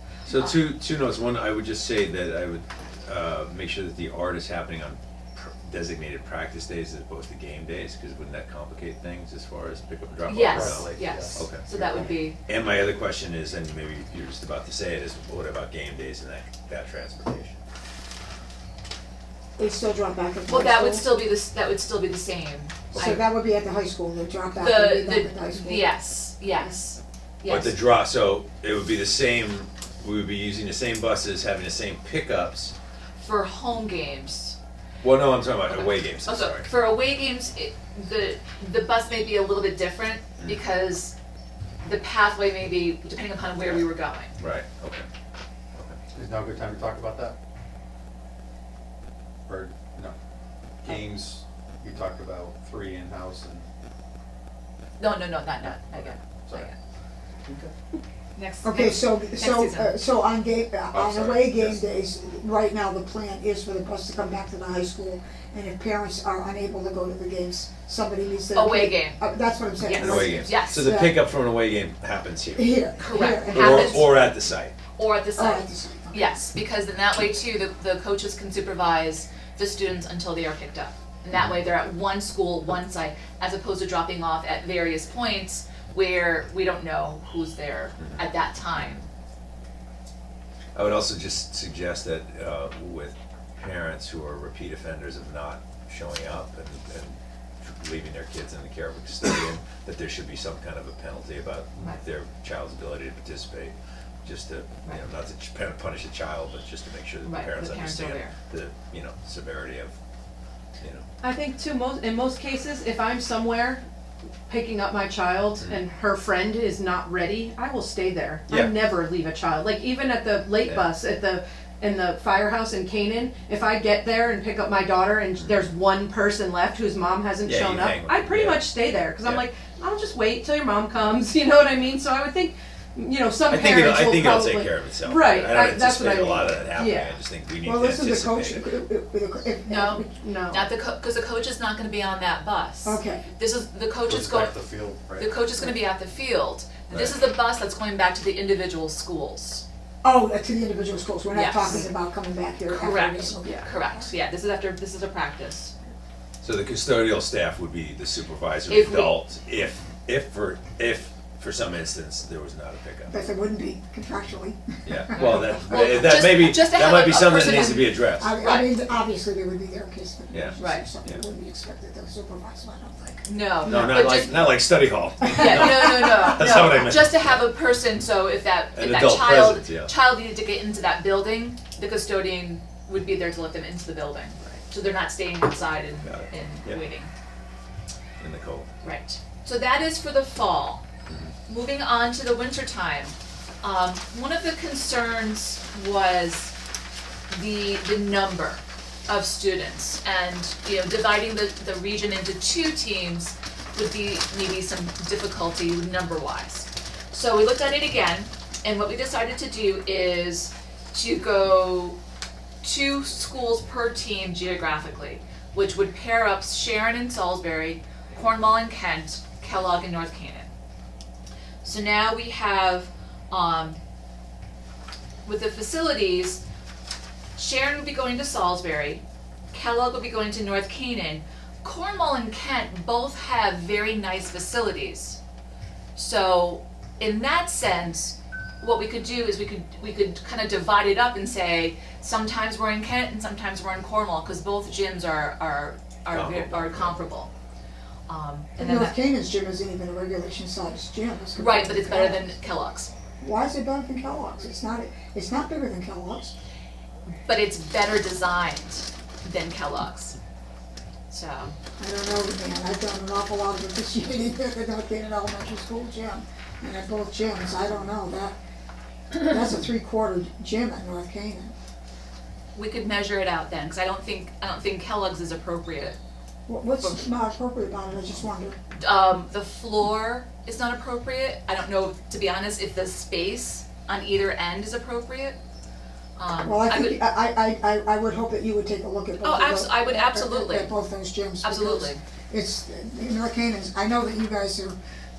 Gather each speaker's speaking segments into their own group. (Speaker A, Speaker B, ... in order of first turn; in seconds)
Speaker A: 0.3-11.6, 12.4-17.6, 27.5-32.7, 35.0-36.7, 44.4-45.0, 69.9-72.7, 73.4-74.8, 90.8-110.0, 118.5-118.9, 120.6-120.9, 125.4-125.6, 127.5-129.5, 133.4-138.7, 146.9-147.3, 156.4-163.2, 164.9-168.3, 170.3-171.2, 173.6-177.5, 178.7-179.9, 186.0-186.8, 188.2-188.7, 246.1-247.0
Speaker B: 10.2-12.4, 20.5-23.2, 24.6-27.8, 33.2-34.6, 35.7-41.1, 41.8-44.4, 55.0-56.8, 58.4-60.0, 68.5-69.2, 69.8-70.9, 73.0-74.3, 75.0-89.0, 107.2-108.3, 139.7-144.5, 145.2-149.6, 151.3-151.9, 152.7-155.8, 158.7-159.2, 165.2-168.7, 170.6-170.9, 173.2-174.6, 175.3-187.1, 188.8-190.8, 191.5-196.5, 197.3-212.0, 212.6-220.5, 221.6-223.8, 225.2-226.4, 227.4-235.2, 236.0-247.3, 248.1-248.9, 251.4-252.9, 257.2-260.2, 261.1-261.5, 272.6-276.0, 278.8-285.4, 286.2-287.0, 289.2-290.7, 291.4-292.0
Speaker C: 10.4-12.1, 46.1-47.4, 49.5-50.2, 50.8-53.7, 55.6-56.7, 57.4-57.7, 60.9-61.8, 144.1-145.4
Speaker D: 19.6-21.2, 22.9-25.9, 58.6-71.2, 72.6-74.1, 75.4-76.3, 137.6-140.1, 142.8-143.2, 150.0-154.1, 163.1-165.8, 167.6-173.3, 175.3-176.2, 248.6-252.3, 253.2-256.4, 261.8-268.4, 269.1-271.5, 276.5-278.6, 286.4-294.8
Speaker E: 111.2-113.8, 114.5-137.2, 140.2-140.7